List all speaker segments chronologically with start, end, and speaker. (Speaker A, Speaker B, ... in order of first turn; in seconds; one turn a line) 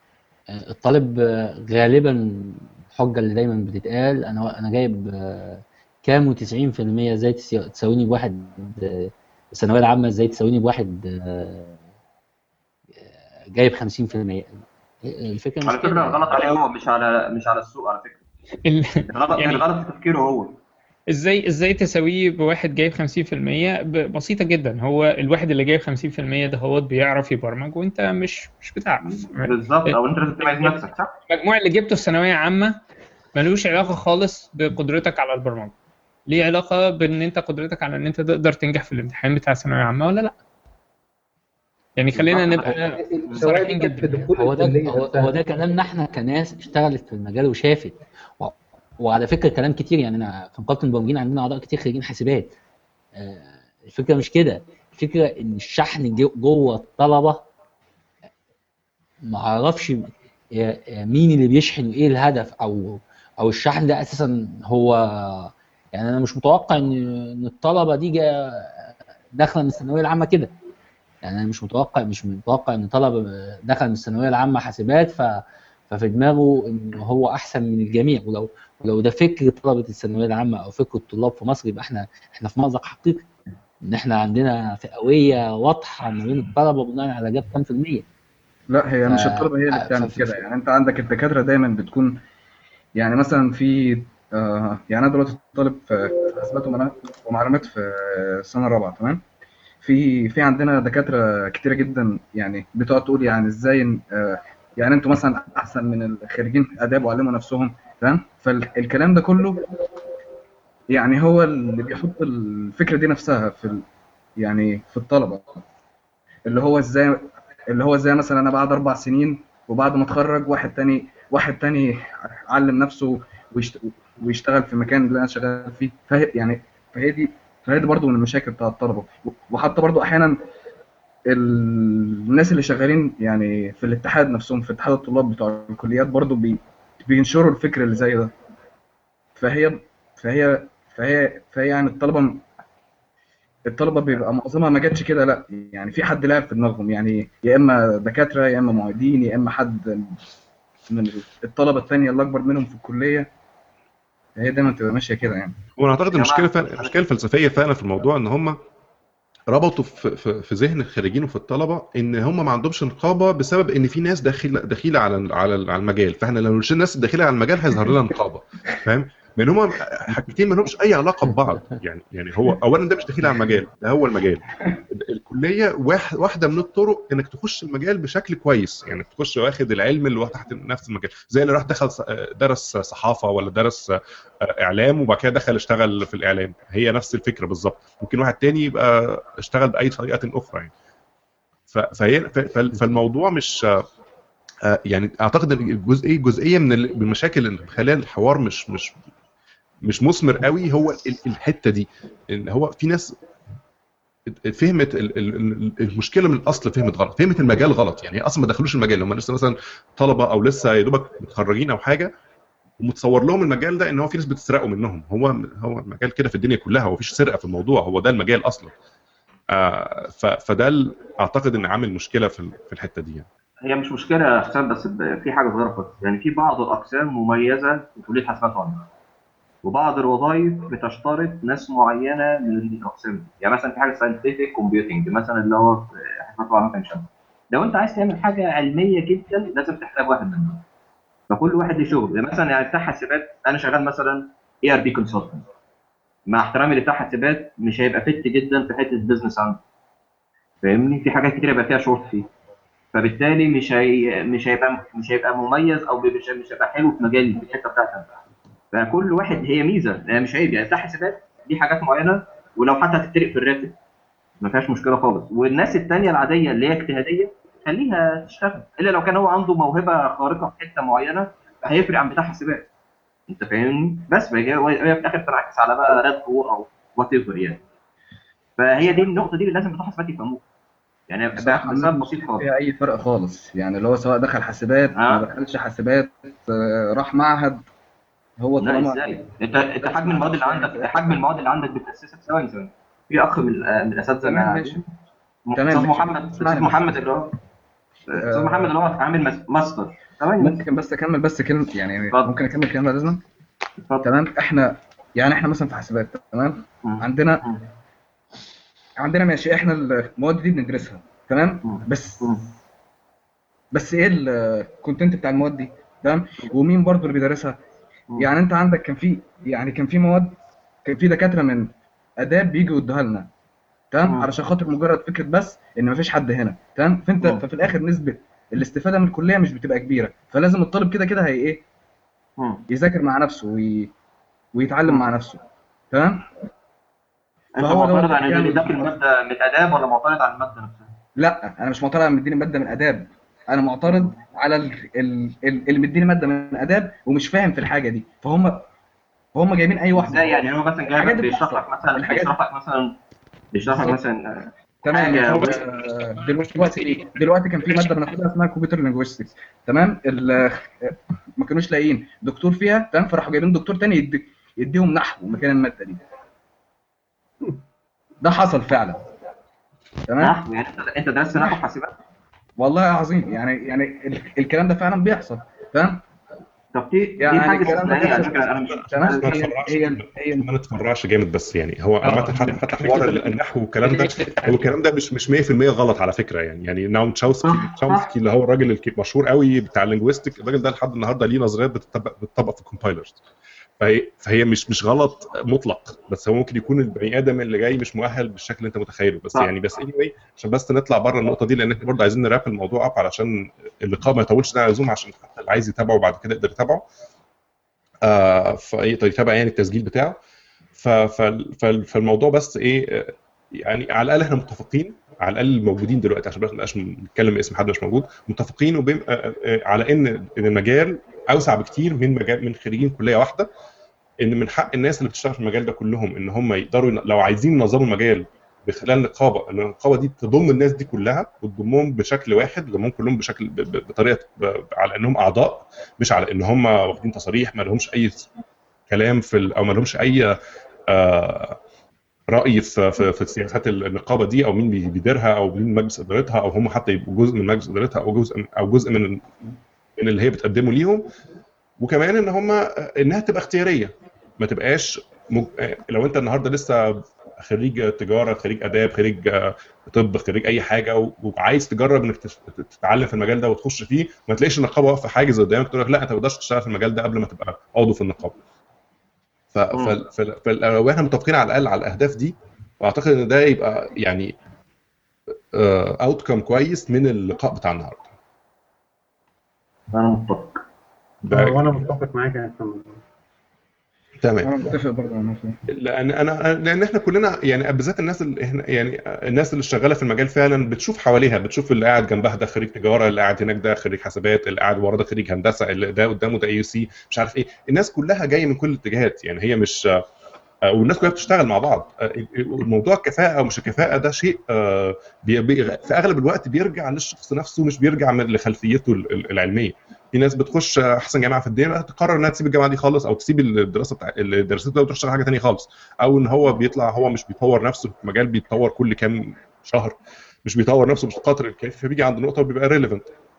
Speaker A: 0.5-11.8
Speaker A: 13.5-16.5
Speaker B: 15.6-18.2
Speaker C: 18.6-19.6
Speaker B: 19.1-20.6
Speaker C: 21.1-32.8
Speaker B: 29.0-31.1
Speaker C: 33.3-35.7
Speaker C: 36.3-40.4
Speaker C: 42.0-44.2
Speaker B: 42.2-42.7
Speaker D: 42.6-45.3
Speaker A: 44.4-52.5
Speaker A: 53.2-57.4
Speaker A: 59.2-70.5
Speaker A: 71.2-83.3
Speaker A: 83.8-88.0
Speaker E: 88.7-92.2
Speaker A: 89.1-90.4
Speaker E: 93.0-99.2
Speaker E: 99.8-109.7
Speaker E: 110.9-113.8
Speaker E: 114.4-115.6
Speaker E: 116.5-130.4
Speaker E: 131.3-138.3
Speaker E: 139.4-142.5
Speaker E: 143.7-150.2
Speaker E: 150.9-153.3
Speaker E: 154.4-155.6
Speaker F: 155.8-158.6
Speaker B: 156.1-157.0
Speaker F: 159.5-190.7
Speaker F: 191.7-193.8
Speaker F: 194.7-198.9
Speaker F: 199.8-203.2
Speaker F: 204.3-212.1
Speaker F: 212.8-218.7
Speaker F: 219.5-223.3
Speaker B: 223.6-228.9
Speaker B: 229.6-240.6
Speaker B: 241.3-245.4
Speaker B: 246.3-249.6
Speaker B: 250.6-252.3
Speaker B: 252.9-258.1
Speaker B: 258.7-263.8
Speaker B: 264.4-272.7
Speaker B: 273.3-277.6
Speaker B: 278.6-280.4
Speaker B: 281.1-282.5
Speaker E: 281.4-287.7
Speaker B: 284.9-285.3
Speaker E: 288.4-291.2
Speaker B: 288.6-294.9
Speaker E: 294.2-294.8
Speaker B: 295.5-297.3
Speaker E: 295.6-297.0
Speaker B: 298.1-300.6
Speaker E: 298.2-298.7
Speaker E: 300.4-303.2
Speaker B: 302.0-302.4
Speaker B: 303.8-304.1
Speaker E: 304.0-307.4
Speaker B: 306.8-307.7
Speaker E: 309.0-312.3
Speaker B: 311.6-312.5
Speaker E: 313.7-317.6
Speaker E: 318.2-323.3
Speaker E: 323.9-331.6
Speaker B: 324.0-324.3
Speaker B: 332.4-332.6
Speaker E: 332.7-333.9
Speaker E: 334.5-336.3
Speaker B: 337.6-340.9
Speaker E: 337.6-338.9
Speaker E: 341.2-348.7
Speaker E: 349.3-352.3
Speaker B: 349.9-353.0
Speaker B: 353.5-355.7
Speaker E: 353.7-353.9
Speaker E: 354.8-366.0
Speaker C: 356.1-357.1
Speaker C: 357.7-358.2
Speaker E: 368.2-369.1
Speaker E: 370.1-370.4
Speaker B: 370.2-372.0
Speaker E: 372.6-376.0
Speaker B: 376.7-379.5
Speaker E: 377.2-380.5
Speaker F: 377.6-393.2
Speaker C: 382.0-383.3
Speaker C: 383.8-384.7
Speaker B: 387.4-388.1
Speaker F: 393.8-406.8
Speaker F: 408.0-410.2
Speaker F: 410.8-423.5
Speaker F: 424.2-438.3
Speaker F: 438.9-440.3
Speaker F: 440.9-441.6
Speaker F: 442.3-451.1
Speaker F: 451.8-468.4
Speaker F: 469.5-474.4
Speaker F: 475.5-478.1
Speaker B: 479.9-480.6
Speaker D: 481.2-483.0
Speaker F: 481.3-481.9
Speaker F: 484.2-484.7
Speaker E: 484.4-485.6
Speaker F: 485.7-500.0
Speaker F: 500.7-523.1